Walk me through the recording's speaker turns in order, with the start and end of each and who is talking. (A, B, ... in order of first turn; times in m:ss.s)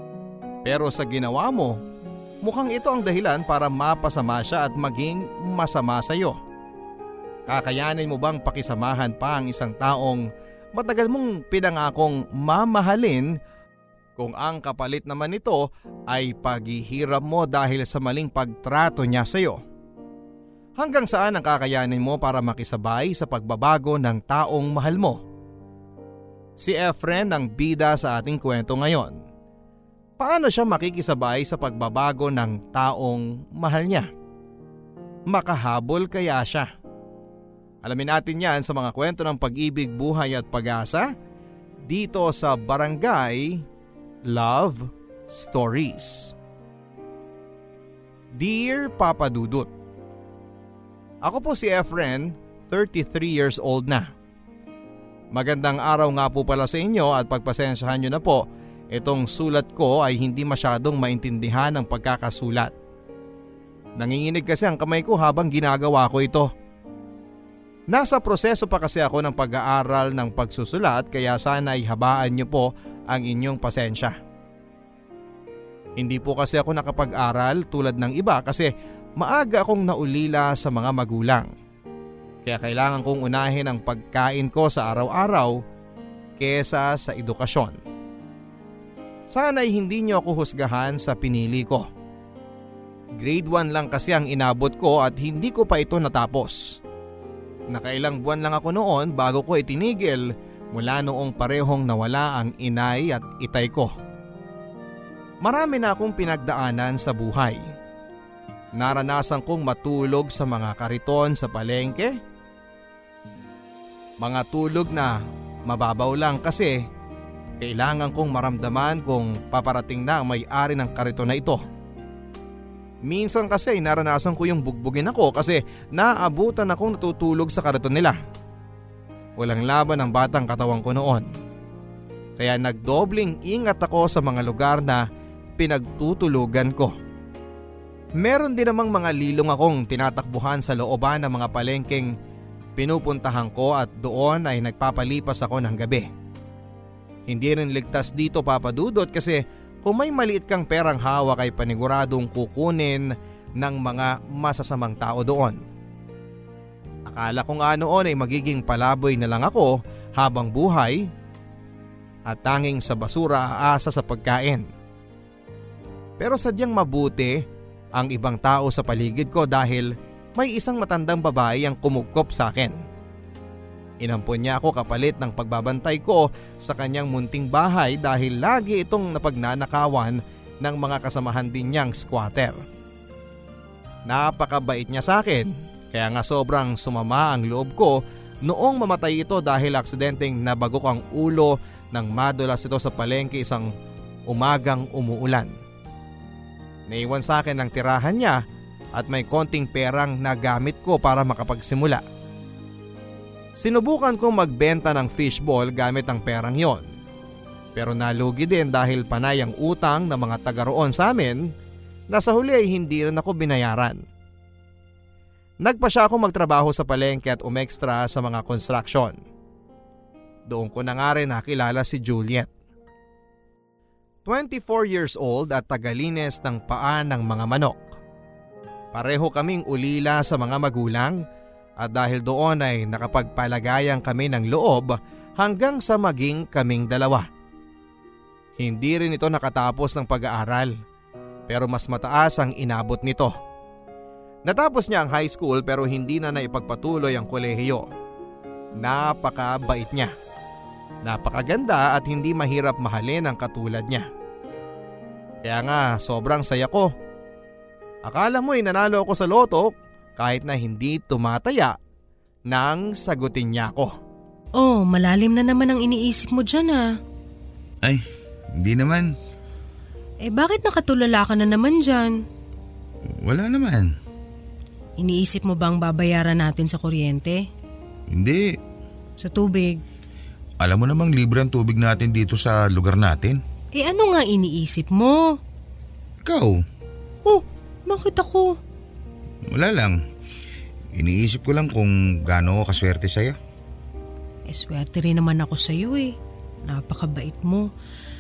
0:00.6-0:01.8 A
0:02.4-0:06.4 A
0:07.5-0:13.4 A
0:14.2-0:19.6 A
0:20.8-0:25.2 A
0:26.6-0:29.2 A
0:30.2-0:34.1 A
0:35.3-0:36.7 A
0:37.8-0:41.1 A
0:41.8-0:43.6 A
0:44.3-0:46.3 A
0:48.3-0:49.7 A
0:51.2-0:54.1 A
0:55.3-1:02.7 A
1:04.0-1:06.5 A
1:07.9-1:14.2 A
1:16.0-1:21.5 A
1:22.4-1:25.6 A
1:26.4-1:27.8 A
1:29.3-1:31.9 A
1:33.2-1:36.8 A
1:37.7-1:43.9 A
1:45.4-1:47.7 A
1:48.8-1:52.2 A
1:54.2-1:56.8 A
1:57.6-2:01.6 A
2:03.0-2:08.2 A
2:09.4-2:11.3 A
2:12.4-2:15.0 A
2:15.6-2:16.9 A
2:18.2-2:22.2 A
2:22.8-2:26.1 A
2:27.3-2:35.6 A
2:37.1-2:41.1 A
2:42.3-2:44.7 A
2:46.2-2:47.4 A
2:47.9-2:52.8 A
2:54.0-3:02.6 A
3:04.1-3:13.7 A
3:14.3-3:15.5 A
3:16.9-3:18.4 A
3:18.9-3:22.0 A
3:23.6-3:26.9 A
3:27.8-3:31.5 A
3:32.1-3:34.0 A
3:35.6-3:39.2 A
3:40.5-3:42.5 A
3:44.2-3:47.9 A
3:48.9-3:51.2 A
3:51.8-3:57.3 A
3:58.6-4:00.7 A
4:01.5-4:03.3 A
4:04.5-4:07.9 A
4:08.8-4:10.1 A
4:11.0-4:14.1 A
4:15.4-4:16.9 A
4:18.0-4:21.8 A
4:22.5-4:23.9 A
4:24.5-4:26.9 B
4:28.6-4:29.1 C
4:30.2-4:32.2 B
4:33.1-4:33.9 C
4:35.0-4:37.5 B
4:38.1-4:38.5 C
4:39.2-4:39.8 B
4:40.6-4:43.4 C
4:43.7-4:45.4 B
4:46.2-4:46.6 C
4:47.2-4:48.6 B
4:49.5-4:50.0 C
4:50.9-4:53.4 C
4:54.5-4:57.7 B